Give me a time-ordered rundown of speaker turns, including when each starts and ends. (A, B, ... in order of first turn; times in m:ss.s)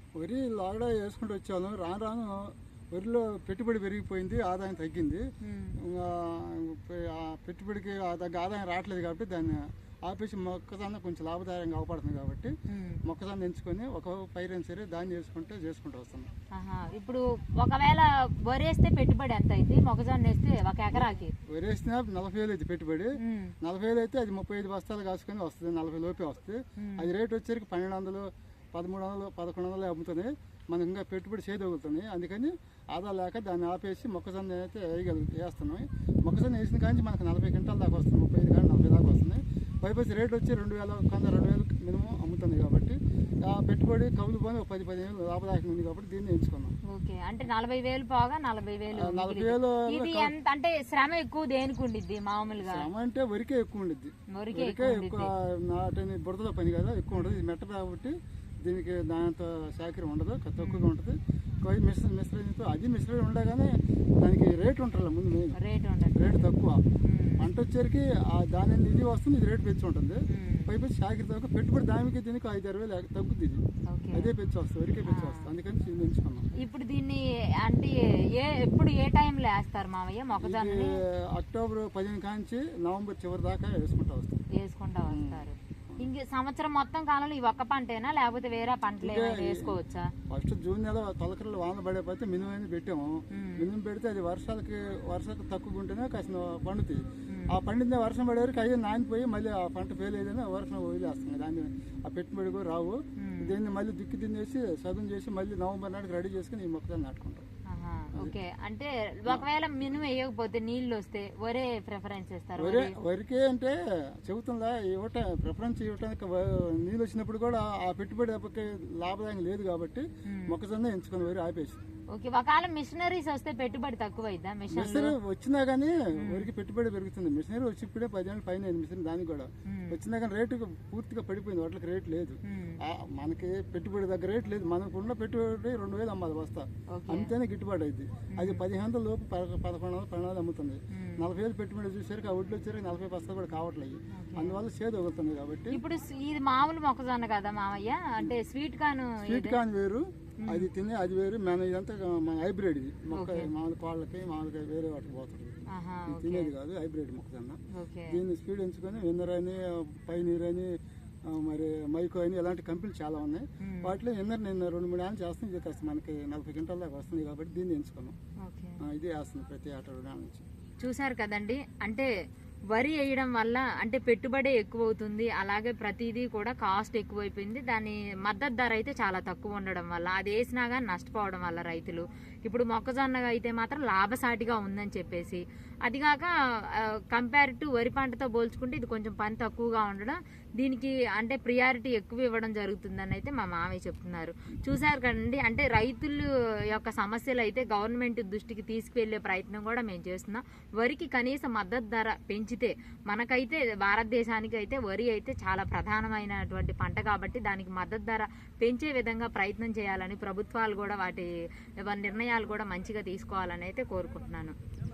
0:00.2-0:05.2 A
0:05.4-0:05.8 B
0:05.8-0:12.5 A
0:12.7-0:13.0 B
0:13.0-0:16.3 A
0:16.5-0:21.3 B
0:20.9-0:46.8 A
0:23.2-0:23.6 B
0:26.8-0:27.1 B
0:46.9-0:52.9 B
0:49.0-0:50.3 A
0:52.6-1:05.6 A
0:54.3-0:55.3 B
0:57.1-0:57.4 B
1:00.6-1:00.9 B
1:05.6-1:06.5 B
1:06.2-1:06.8 A
1:07.0-1:07.5 B
1:07.4-1:13.6 A
1:10.3-1:10.7 B
1:13.9-1:14.3 B
1:14.1-1:16.5 A
1:15.1-1:15.5 B
1:16.6-1:21.0 B
1:20.4-1:24.4 A
1:24.5-1:30.1 B
1:25.1-1:26.1 A
1:29.0-1:29.8 A
1:30.3-1:47.4 A
1:33.3-1:33.7 B
1:37.3-1:37.6 B
1:43.2-1:43.6 B
1:47.7-1:53.0 B
1:52.6-2:01.8 A
2:00.3-2:00.6 B
2:02.1-2:05.2 B
2:04.7-2:25.8 A
2:06.2-2:06.5 B
2:09.7-2:10.0 B
2:12.4-2:12.8 B
2:16.9-2:17.3 B
2:18.3-2:18.6 B
2:20.9-2:21.2 B
2:24.2-2:24.6 B
2:25.7-2:29.6 B
2:29.2-2:37.6 A
2:30.4-2:30.7 B
2:33.1-2:33.5 B
2:35.7-2:36.5 B
2:37.7-2:38.2 B
2:38.1-2:40.7 A
2:41.3-2:48.2 A
2:43.6-2:44.0 B
2:48.4-2:48.8 B
2:48.8-2:50.4 A
2:50.8-2:52.1 B
2:52.7-3:34.6 B